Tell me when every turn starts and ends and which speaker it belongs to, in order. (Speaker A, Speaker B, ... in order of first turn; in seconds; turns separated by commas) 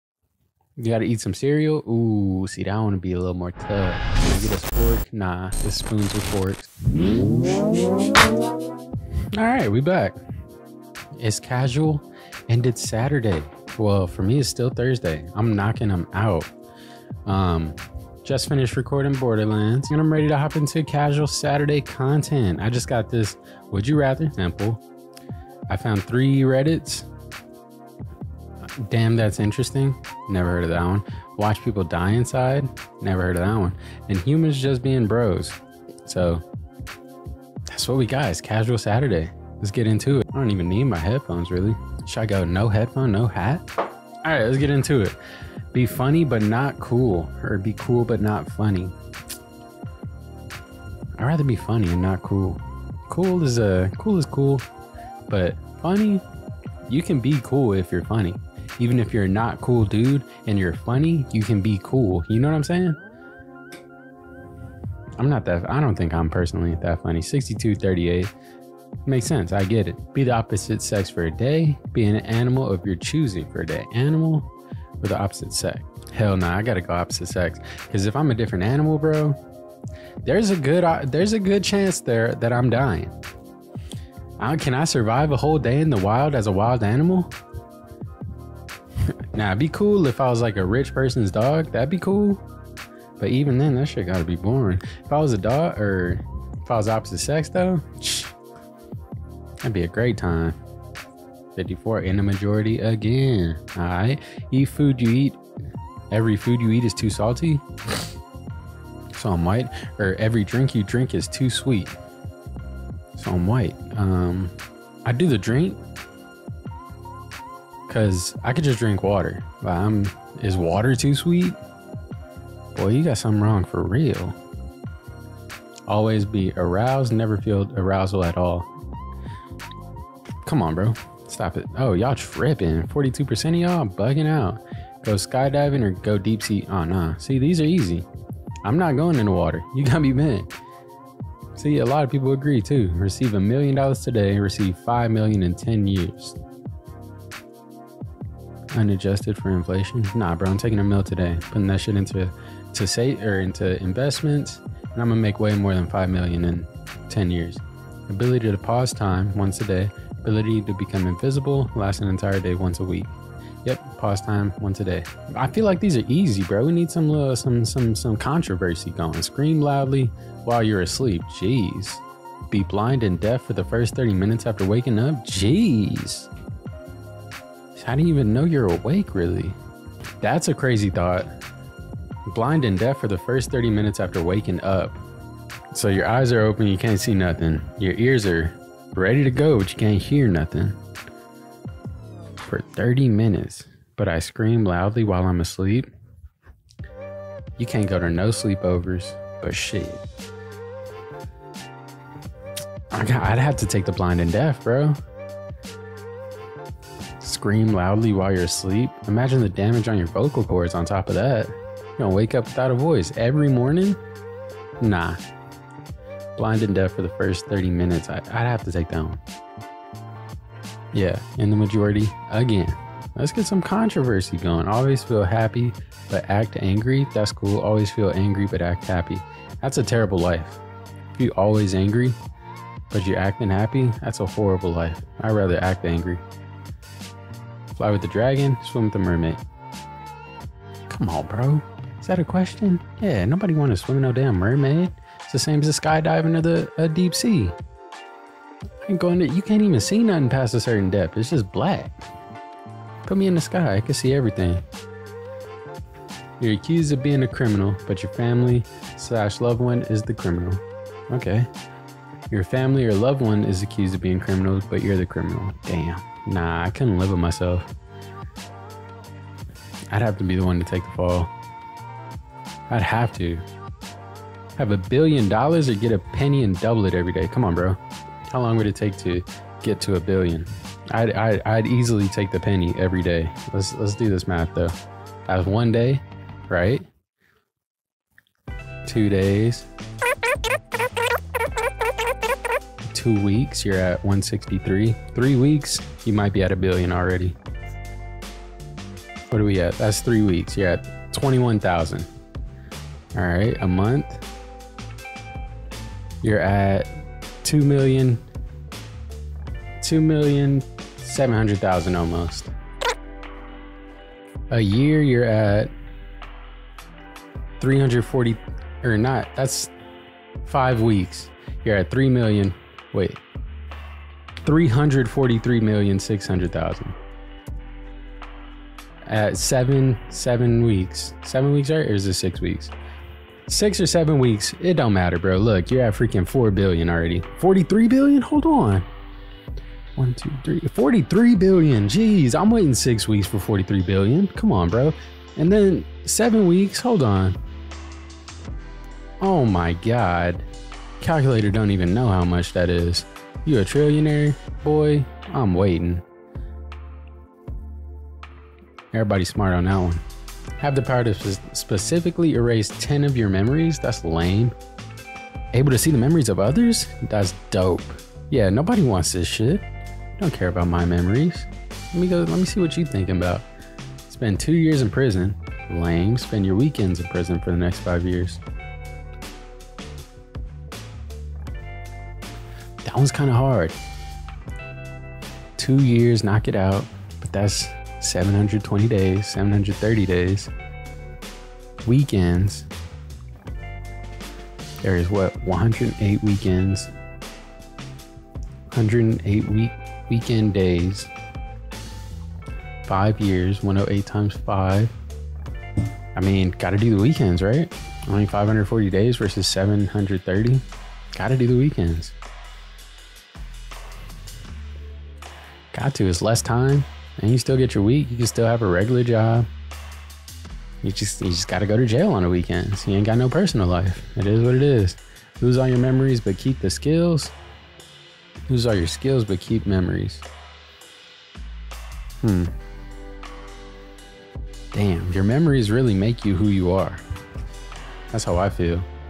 Speaker A: 0.8-6.7, Speaker A: 9.3-10.2, Speaker A: 11.2-16.5, Speaker A: 17.2-24.8, Speaker A: 25.7-27.1, Speaker A: 28.8-36.4, Speaker A: 37.7-43.6, Speaker A: 44.2-45.2, Speaker A: 45.7-48.9, Speaker A: 51.2-54.6, Speaker A: 55.3-56.2, Speaker A: 56.9-63.0, Speaker A: 65.2-68.3, Speaker A: 69.0-74.5, Speaker A: 75.0-79.4, Speaker A: 80.2-83.1, Speaker A: 84.4-87.3, Speaker A: 89.3-92.4, Speaker A: 93.2-98.3, Speaker A: 99.6-100.5, Speaker A: 101.5-105.4, Speaker A: 106.1-107.7, Speaker A: 109.2-112.0, Speaker A: 113.2-114.5, Speaker A: 115.0-115.8, Speaker A: 117.9-121.6, Speaker A: 122.7-124.3, Speaker A: 125.9-128.7, Speaker A: 130.4-138.1, Speaker A: 138.6-140.5, Speaker A: 141.6-146.4, Speaker A: 148.7-176.3, Speaker A: 177.8-179.6, Speaker A: 180.2-181.3, Speaker A: 182.3-185.0, Speaker A: 185.7-190.8, Speaker A: 192.5-195.9, Speaker A: 197.6-200.0, Speaker A: 202.9-205.0, Speaker A: 207.2-214.0, Speaker A: 214.8-215.2, Speaker A: 216.3-219.2, Speaker A: 220.9-230.6, Speaker A: 231.1-232.2, Speaker A: 232.9-236.2, Speaker A: 237.8-239.4, Speaker A: 240.9-247.6, Speaker A: 248.8-252.0, Speaker A: 253.1-254.6, Speaker A: 256.4-261.5, Speaker A: 262.3-267.7, Speaker A: 269.9-271.3, Speaker A: 272.7-273.4, Speaker A: 274.6-277.8, Speaker A: 278.3-284.7, Speaker A: 285.3-286.9, Speaker A: 288.8-289.7, Speaker A: 292.9-297.4, Speaker A: 299.3-302.1, Speaker A: 303.1-304.2, Speaker A: 306.2-306.9, Speaker A: 307.4-308.2, Speaker A: 309.8-312.5, Speaker A: 314.5-315.7, Speaker A: 317.6-319.7, Speaker A: 320.4-323.2, Speaker A: 324.4-326.9, Speaker A: 329.1-332.7, Speaker A: 333.5-338.9, Speaker A: 339.9-347.4, Speaker A: 349.2-350.5, Speaker A: 351.0-356.0, Speaker A: 358.9-360.0, Speaker A: 360.6-364.5, Speaker A: 365.5-369.6, Speaker A: 370.2-373.5, Speaker A: 374.1-378.4, Speaker A: 382.8-383.8, Speaker A: 385.6-390.5, Speaker A: 391.8-392.7, Speaker A: 394.8-396.9, Speaker A: 398.7-401.1, Speaker A: 402.9-404.9, Speaker A: 406.1-410.6, Speaker A: 411.1-412.1, Speaker A: 415.7-419.5, Speaker A: 420.8-427.3, Speaker A: 428.5-430.2, Speaker A: 432.2-432.5, Speaker A: 434.7-437.0, Speaker A: 438.1-438.9